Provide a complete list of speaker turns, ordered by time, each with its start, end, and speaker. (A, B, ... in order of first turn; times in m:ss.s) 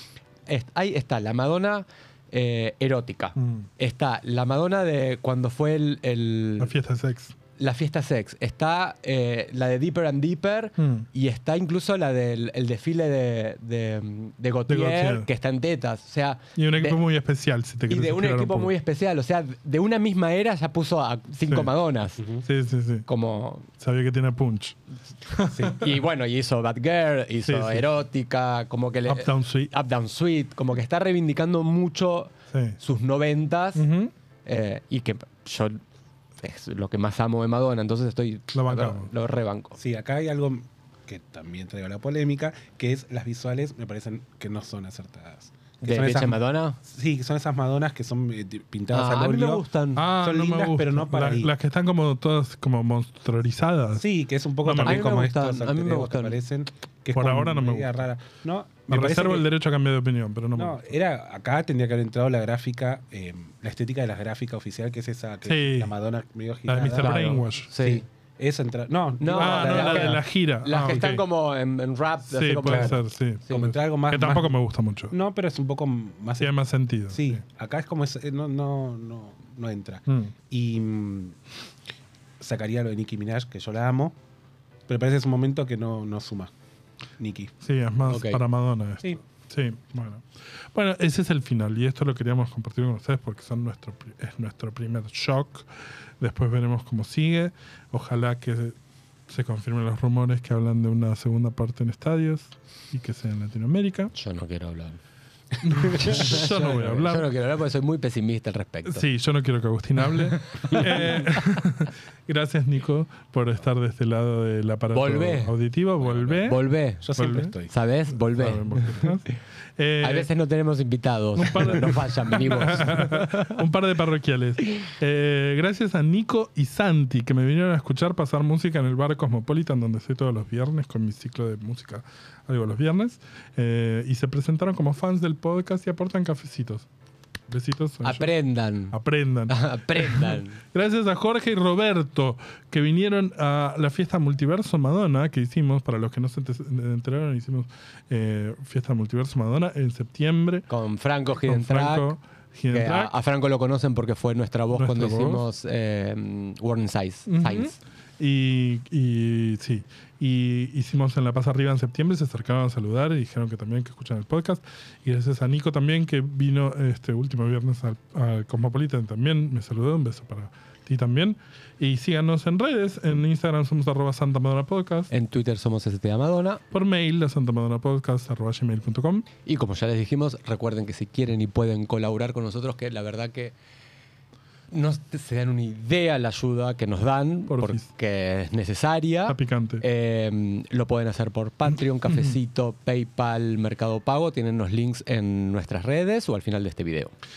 0:00.5-0:06.7 A
0:03.4-0:03.7 B
0:06.6-0:07.3 B
0:07.6-0:17.0 A
0:10.8-0:11.0 B
0:14.7-0:15.3 B
0:16.6-0:18.7 B
0:17.9-0:22.2 A
0:22.4-0:23.0 B
0:23.0-0:23.7 A
0:23.8-0:25.8 B
0:25.5-0:25.8 C
0:25.7-0:33.9 A
0:27.4-0:27.9 B
0:29.1-0:29.7 B
0:32.5-0:32.8 B
0:33.8-0:34.1 B
0:34.4-0:35.8 A
0:36.4-0:39.8 A
0:38.5-0:39.1 B
0:39.8-0:51.5 C
0:45.8-0:46.8 A
0:48.9-0:50.1 A
0:50.0-0:54.0 B
0:54.0-0:59.4 C
0:54.6-0:55.0 B
0:54.8-0:56.4 A
0:57.1-0:58.0 B
0:58.9-1:01.0 B
1:00.6-1:07.1 C
1:05.4-1:05.9 B
1:06.7-1:07.7 B
1:07.0-1:08.0 A
1:07.8-1:10.2 C
1:09.2-1:13.0 A
1:09.4-1:11.2 B
1:12.3-1:15.1 B
1:12.6-1:13.0 C
1:13.5-1:14.5 C
1:15.1-1:16.6 C
1:16.4-1:17.4 B
1:17.1-1:21.4 C
1:20.1-1:20.3 B
1:22.4-1:24.2 C
1:24.9-1:26.5 C
1:27.2-1:27.5 C
1:27.6-1:35.7 B
1:28.0-1:28.4 A
1:36.2-1:38.7 B
1:39.3-1:44.1 B
1:44.1-1:45.0 A
1:45.6-1:47.3 B
1:45.6-1:49.0 A
1:48.8-1:56.6 B
1:50.6-1:51.4 A
1:54.9-1:55.5 A
1:56.0-1:57.7 C
1:56.4-1:57.0 A
1:57.2-1:57.5 B
1:57.7-1:59.3 A
1:58.1-2:00.3 B
2:00.0-2:03.6 A
2:01.4-2:16.9 B
2:17.5-2:18.3 B
2:18.0-2:19.0 A
2:18.9-2:30.6 B
2:19.5-2:20.6 A
2:30.7-2:32.1 A
2:31.4-2:33.1 B
2:32.7-2:37.8 A
2:34.7-2:35.4 B
2:37.3-2:55.1 B
2:55.1-2:56.6 A
2:56.7-2:59.3 B
2:59.4-3:03.5 A
3:04.7-3:17.1 A
3:07.5-3:07.9 B
3:09.3-3:09.8 B
3:12.0-3:12.4 B